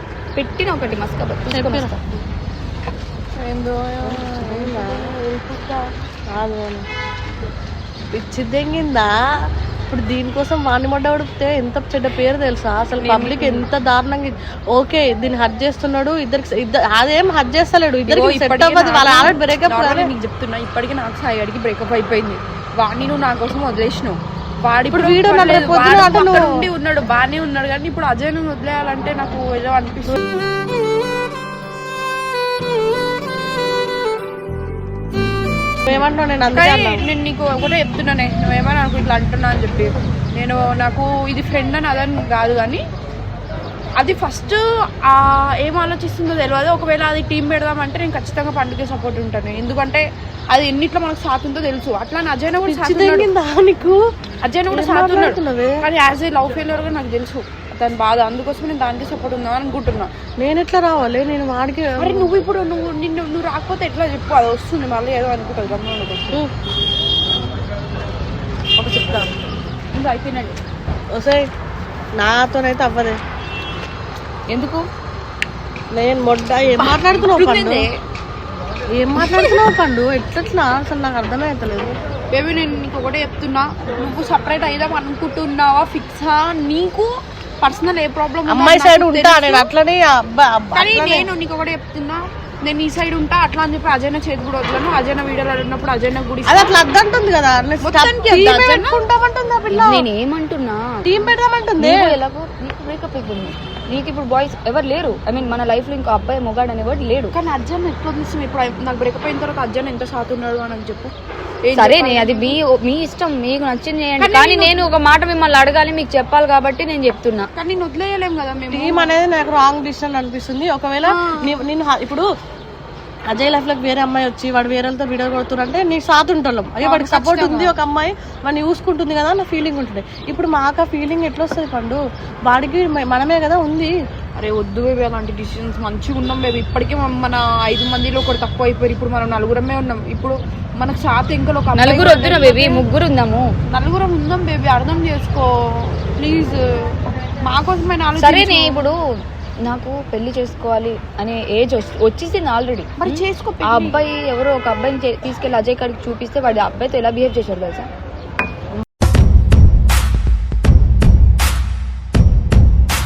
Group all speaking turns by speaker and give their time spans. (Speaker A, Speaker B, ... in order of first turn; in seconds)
Speaker A: 0.3-2.0, 69.9-70.6, 74.5-74.8, 99.7-101.3, 101.8-107.3, 111.7-117.5, 141.8-143.5, 148.2-149.0, 149.6-157.9
Speaker B: 1.5-1.9, 3.4-6.9, 8.1-9.1, 9.9-20.1, 24.9-26.6, 35.9-37.0, 52.7-54.0, 54.7-55.8, 60.4-62.3, 71.1-71.5, 72.2-73.2, 75.9-77.9, 78.9-81.9, 88.5-91.3, 96.5-100.1, 101.0-102.2, 118.7-122.3, 123.3-133.9
Speaker C: 4.2-4.5, 13.0-13.7, 18.1-30.2, 36.5-42.8, 44.0-53.3, 54.4-60.1, 62.0-66.4, 76.8-77.9, 79.2-79.6, 82.3-89.7, 90.7-96.8, 97.8-99.0, 107.3-111.1, 111.7-112.6, 114.2-114.9, 117.5-119.2, 121.0-121.6, 126.8-127.8, 134.4-142.9, 143.7-148.9, 153.0-154.0